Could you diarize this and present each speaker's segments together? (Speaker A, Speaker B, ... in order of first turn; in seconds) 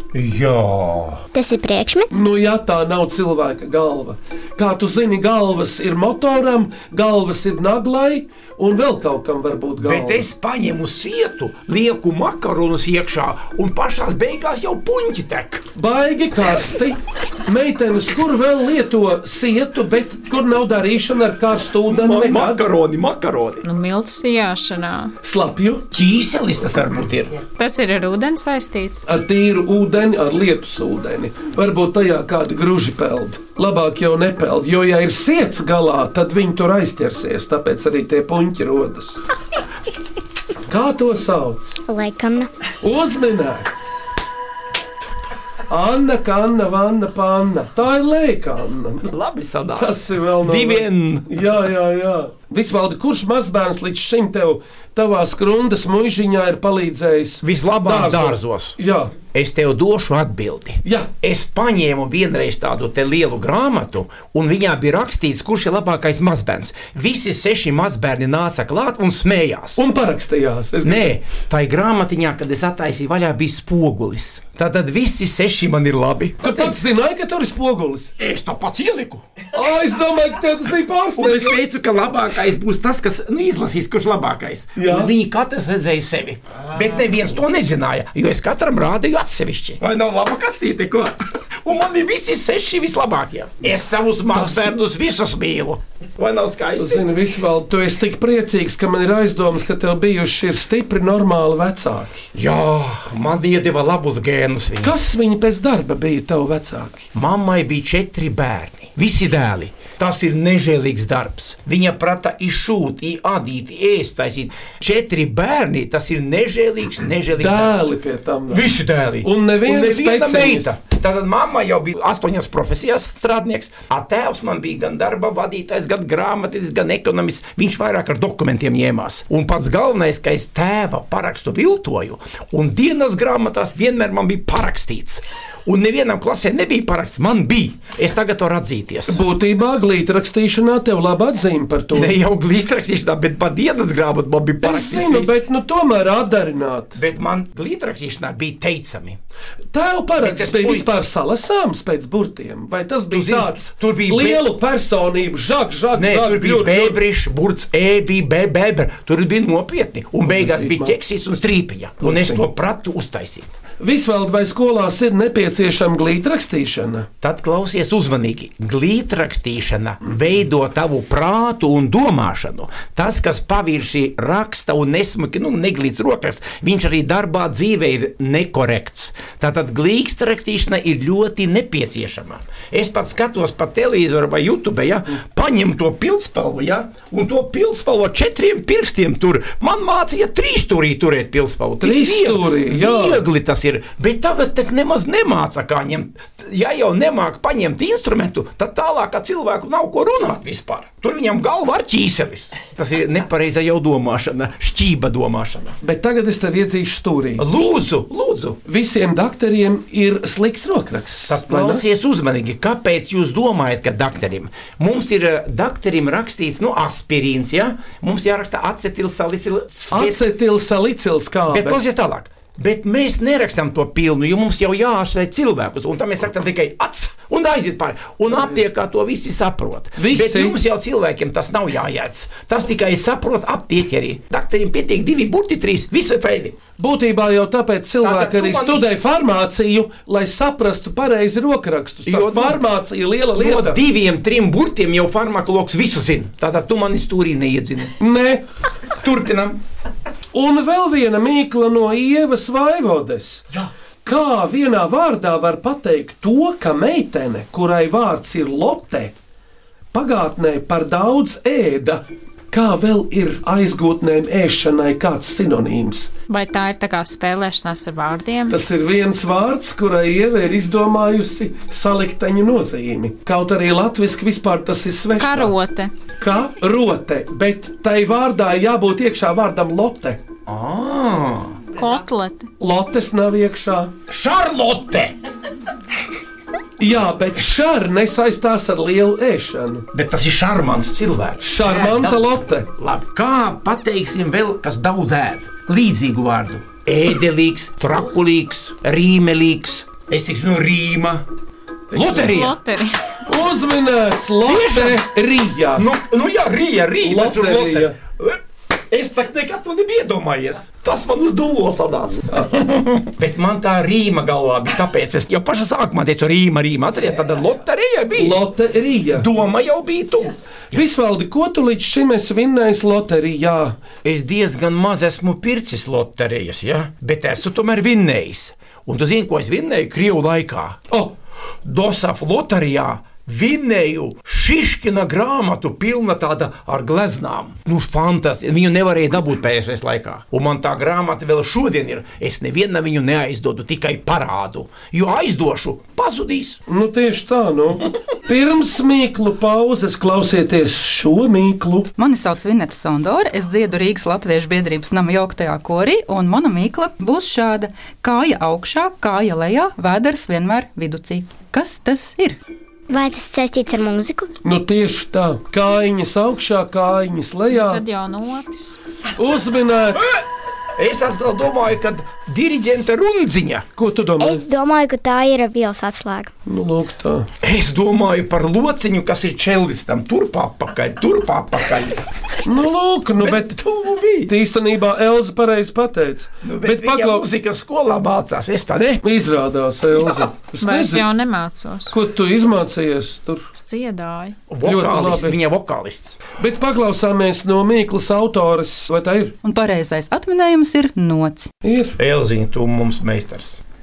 Speaker A: 0.1-1.2, 9.8-15.7, 21.9-23.6, 25.9-27.4, 49.1-51.4, 57.4-58.8, 59.3-69.8, 70.8-76.8, 78.2-79.2, 81.2-97.1, 102.3-105.0, 107.1-117.9, 118.5-139.2, 141.9-145.4, 146.9-149.2, 150.2-150.9, 153.1-154.5, 155.9-163.5, 167.2-205.8, 207.4-208.6, 211.3-220.2, 221.5-236.6, 238.0-238.9, 242.1-242.6, 243.4-247.9, 249.0-249.6, 280.5-281.6, 284.1-285.1, 289.9-301.2, 301.9-302.5, 304.5-305.0, 305.8-318.4, 319.1-320.8, 324.0-330.8, 331.6-346.6, 370.0-370.2, 370.8-373.7, 377.4-382.0, 383.2-384.3, 386.4-389.0, 394.5-396.2, 402.0-403.6
Speaker B: 1.3-2.2, 41.9-42.5, 362.9-364.3, 374.2-376.3
Speaker C: 2.1-10.3, 15.8-22.6, 25.2-25.9, 29.1-39.2, 40.7-41.8, 42.8-44.0, 45.7-49.1, 49.8-59.1, 60.9-61.1, 69.8-71.1, 76.4-78.1, 79.5-81.6, 84.8-85.1, 94.3-94.7, 96.8-102.3, 104.8-107.1, 117.4-120.7, 139.1-142.1, 144.6-147.0, 149.7-157.0, 160.3-161.0, 162.0-162.4, 163.8-167.1, 191.8-193.2, 205.8-207.5, 208.7-211.8, 219.9-221.8, 230.0-230.6, 236.8-243.8, 248.0-248.4, 250.3-253.5, 254.0-259.1, 259.9-266.1, 268.5-275.6, 276.2-280.2, 282.6-283.9, 286.8-289.9, 291.4-292.7, 301.9-302.5, 303.3-305.9, 307.0-308.0, 318.2-319.3, 320.7-323.8, 346.7-351.9, 364.4-367.8, 369.2-370.1, 373.8-374.4, 376.5-377.3, 382.5-383.6, 384.3-387.3, 389.0-391.1, 391.9-393.5, 394.6-395.4, 396.4-399.4, 401.6-402.0
Speaker D: 23.6-25.1, 27.6-29.0, 266.3-268.6, 275.2-275.9, 281.8-282.5, 302.3-303.1, 367.5-368.8, 390.6-391.9, 393.5-394.4
Speaker E: 352.0-362.4, 399.4-401.5